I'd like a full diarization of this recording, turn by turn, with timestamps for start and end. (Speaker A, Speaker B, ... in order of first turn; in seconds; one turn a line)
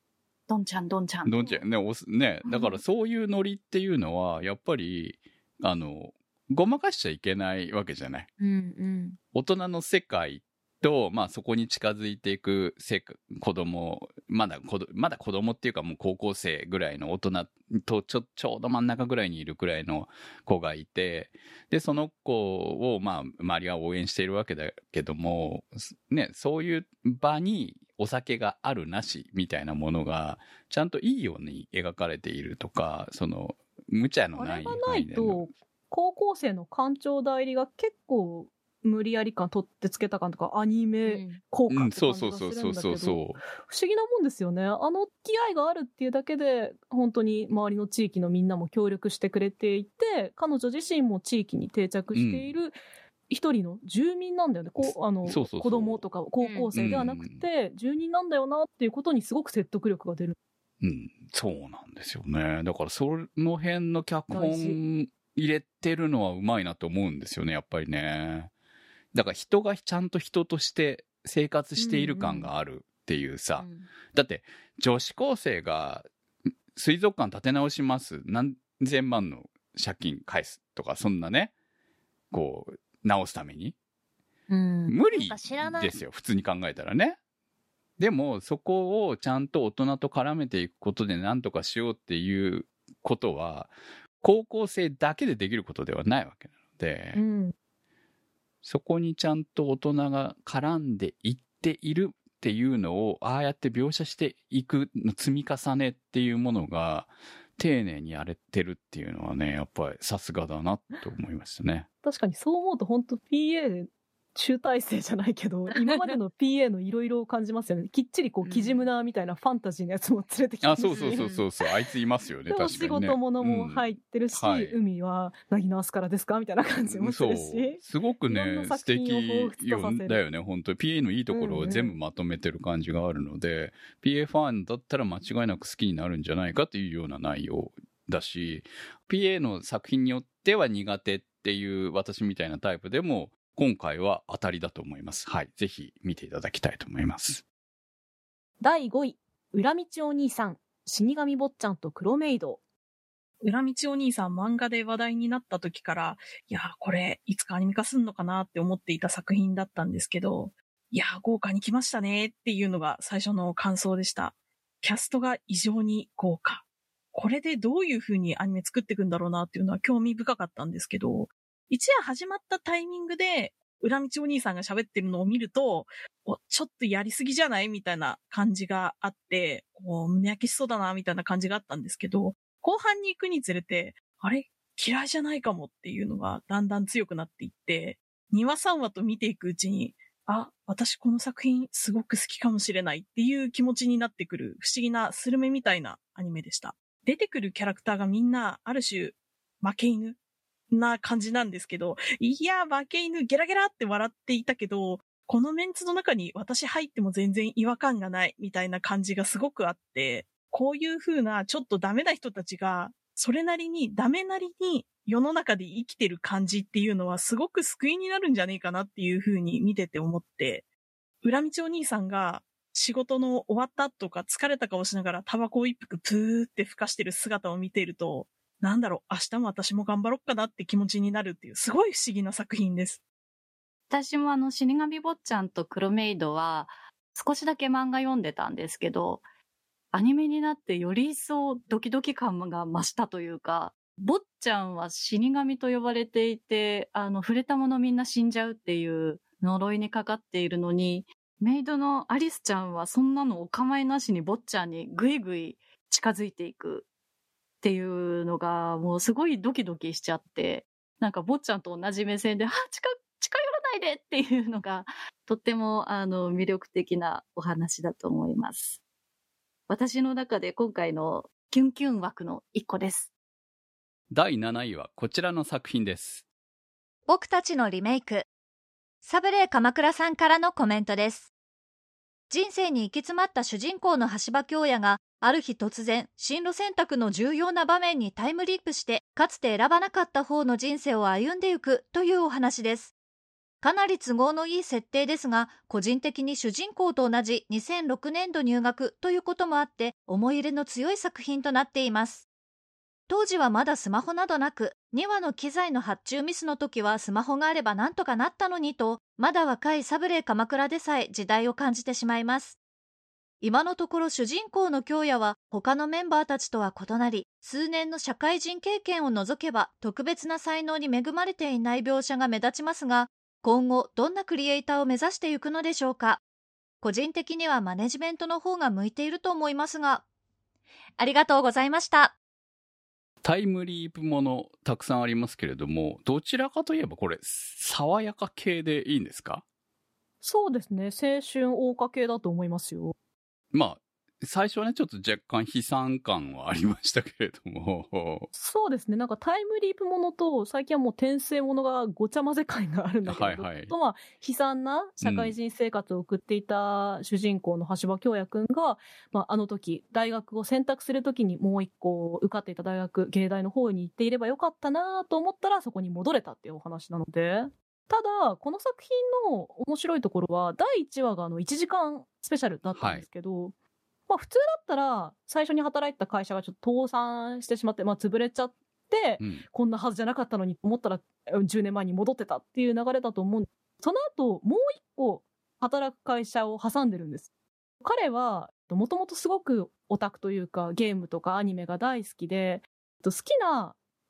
Speaker A: 0.5-1.6
Speaker B: 1.2-8.3
Speaker A: 2.5-2.8
Speaker C: 8.4-9.2
Speaker B: 9.3-35.4
Speaker D: 34.4-52.7
Speaker C: 41.0-41.4
Speaker B: 41.7-43.4
Speaker B: 52.1-52.5
Speaker D: 53.3-60.4
Speaker B: 54.8-56.0
Speaker C: 56.4-56.7
Speaker B: 56.7-57.4
Speaker B: 60.8-68.5
Speaker D: 64.3-64.8
Speaker B: 69.1-76.0
Speaker D: 71.8-72.5
Speaker C: 73.6-73.9
Speaker B: 76.7-81.5
Speaker B: 82.3-83.8
Speaker C: 84.5-85.9
Speaker B: 84.9-87.2
Speaker B: 88.0-97.2
Speaker D: 97.1-97.5
Speaker B: 98.6-111.9
Speaker D: 112.0-121.4
Speaker C: 115.7-116.2
Speaker C: 118.4-118.9
Speaker B: 120.6-124.8
Speaker C: 120.9-121.4
Speaker D: 122.5-130.2
Speaker B: 126.8-147.4
Speaker D: 131.3-131.9
Speaker D: 148.6-152.6
Speaker E: 153.4-200.2
Speaker E: 200.7-220.6
Speaker E: 221.2-233.0
Speaker A: 233.9-239.2
Speaker A: 239.9-256.9
Speaker A: 257.6-268.8
Speaker A: 269.7-273.1
Speaker B: 274.1-276.2
Speaker F: 277.1-278.3
Speaker F: 279.0-281.3
Speaker F: 282.3-292.9
Speaker F: 293.6-302.3
Speaker F: 303.1-312.6
Speaker F: 313.4-326.2
Speaker F: 326.8-330.0
Speaker F: 331.0-332.1
Speaker B: 333.2-339.4
Speaker D: 340.2-342.9
Speaker B: 343.5-348.3
Speaker D: 348.3-373.5
Speaker B: 353.1-353.7
Speaker B: 355.0-355.3
Speaker B: 372.7-373.0
Speaker D: 374.1-387.3
Speaker B: 379.2-379.4
Speaker D: 387.8-393.8